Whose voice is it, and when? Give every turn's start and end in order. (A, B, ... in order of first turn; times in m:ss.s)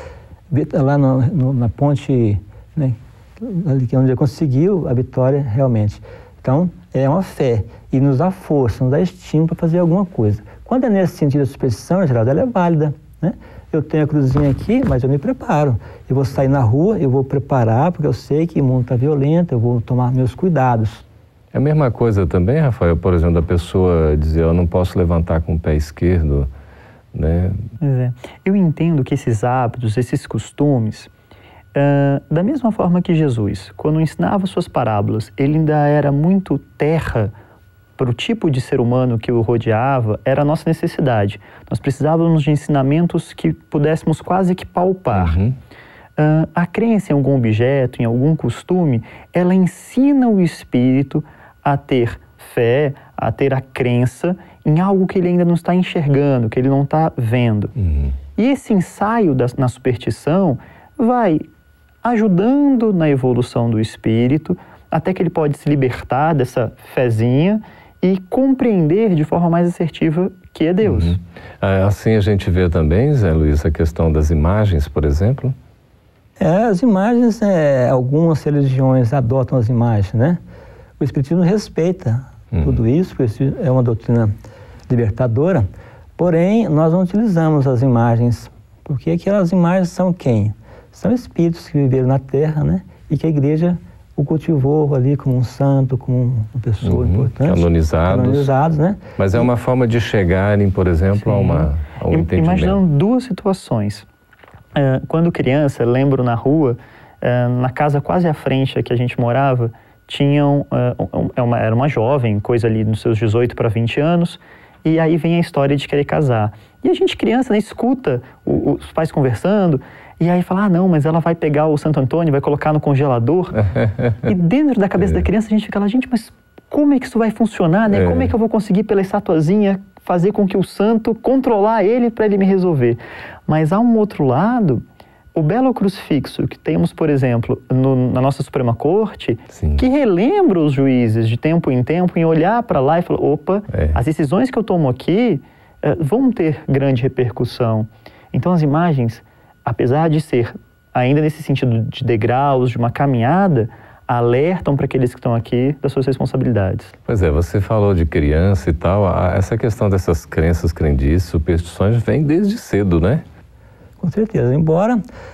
0:00.5-0:21.0 A
0:21.5-0:26.5 B
0:27.1-0:27.6 B
0:27.8-0:31.1 C
0:31.7-0:37.3 C
0:38.0-0:45.4 C
0:45.1-0:45.5 B
0:46.2-0:57.7 C
0:57.8-0:58.1 B
0:58.4-1:01.4 C
1:02.0-1:11.2 C
1:10.8-1:15.6 B
1:16.4-1:20.4 A
1:21.0-1:24.3 A
1:22.5-1:22.8 B
1:24.9-1:39.5 A
1:36.8-1:38.5 B
1:39.2-1:42.8 B
1:41.2-1:44.0 C
1:44.7-2:03.6 C
2:03.7-2:04.2 B
2:04.2-2:14.8 C
2:07.9-2:08.3 B
2:15.3-2:36.9 C
2:19.5-2:19.8 B
2:23.7-2:24.0 B
2:37.1-2:43.2 B
2:44.0-2:45.0 A